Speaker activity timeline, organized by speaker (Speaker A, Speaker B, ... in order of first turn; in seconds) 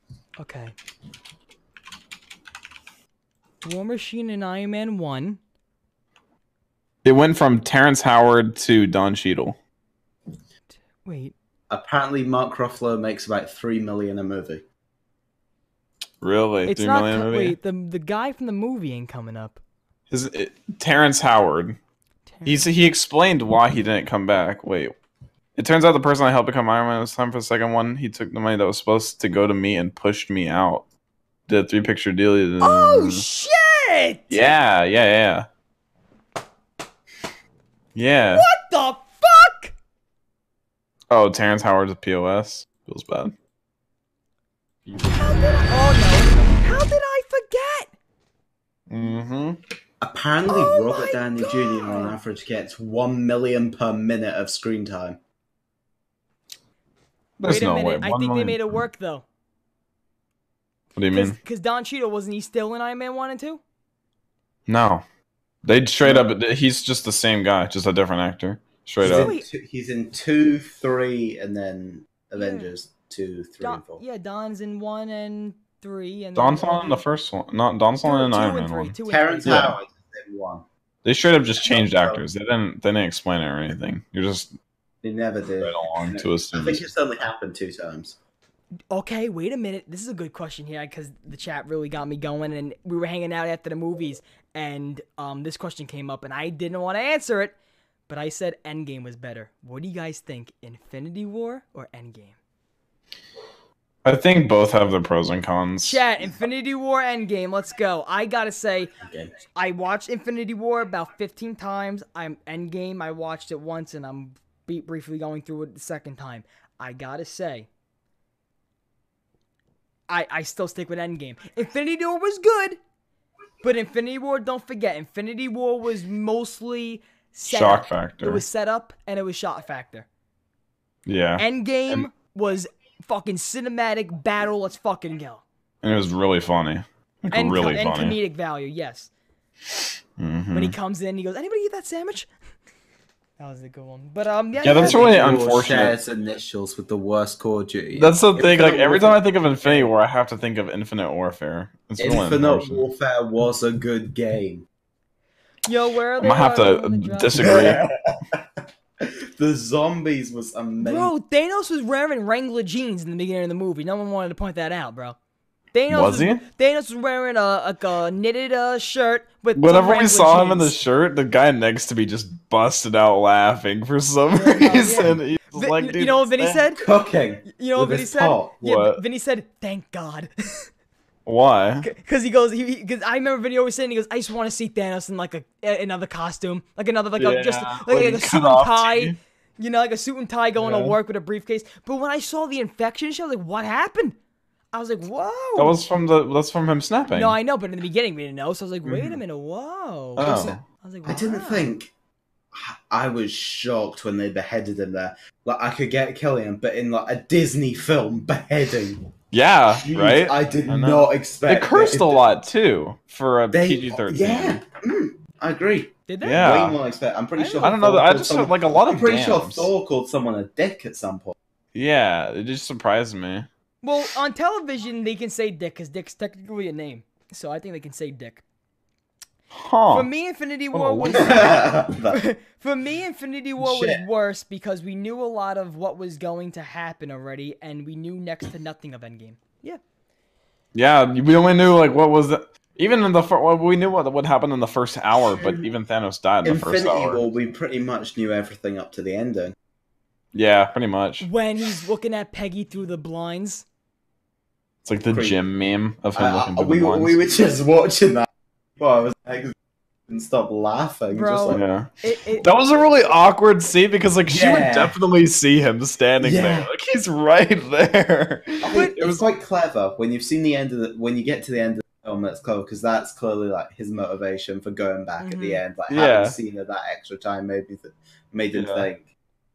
Speaker A: 0.4-0.7, 3.6-5.4, 11.0-11.3, 16.7-19.6, 22.4-22.7, 32.6-34.4, 38.3-39.7, 45.0-47.9, 50.5-52.1, 57.5-59.2, 61.1-63.6, 69.0-69.5, 72.4-72.7, 73.6-77.0, 78.0-79.7, 88.9-97.5, 98.1-102.3, 105.8-108.9, 109.5-117.7, 120.1-122.8, 123.6-130.1, 131.4-135.4, 137.3-139.1, 140.5-142.3, 143.4-145.5, 155.7-157.7, 160.8-165.2, 165.7-170.7, 174.3-176.8, 177.5-180.7, 181.8-194.2, 194.7-195.8, 197.1-201.7, 216.1-216.5, 217.4-217.7, 223.8-228.4, 229.9-239.8, 251.2-253.7, 261.1-262.5, 268.6-269.0, 275.2-275.6
Speaker B: 7.0-9.6, 16.2-17.6, 20.1-21.8, 22.4-24.9, 25.6-30.9, 31.5-33.2, 34.3-35.5, 38.0-38.5, 41.1-43.3, 44.9-45.1, 48.9-49.6, 57.4-58.6, 61.0-61.4, 64.7-65.0, 65.7-69.3, 76.4-79.8, 81.0-84.5, 85.6-86.9, 104.0-106.0, 127.5-128.4, 131.1-132.1, 135.8-138.2, 140.2-140.8, 144.6-146.0, 147.9-152.9, 156.2-157.8, 165.9-166.4, 169.6-176.6, 178.6-179.0, 181.3-181.9, 187.2-189.2, 190.6-191.0, 195.6-197.4, 200.2-200.6, 209.3-214.6, 216.2-216.8, 217.6-219.7, 221.8-223.5, 229.5-230.1, 230.7-231.5, 240.7-247.2, 250.3-251.3, 254.8-257.2, 261.5-269.2, 275.9-276.4, 278.5-278.9
Speaker C: 11.7-14.6, 50.0-55.2, 66.0-66.3, 69.0-74.0, 79.1-80.7, 81.6-82.2, 85.0-88.2, 109.0-109.3, 144.7-149.9, 152.0-154.7, 157.4-161.1, 176.8-178.6, 198.8-199.2, 200.2-201.9, 202.5-209.1, 209.7-212.3, 213.5-221.3, 231.1-232.2, 233.6-234.0, 245.3-245.7, 246.4-249.6, 255.1-255.4, 256.1-259.6, 260.1-261.6, 264.3-265.0, 266.2-266.7, 268.6-279.1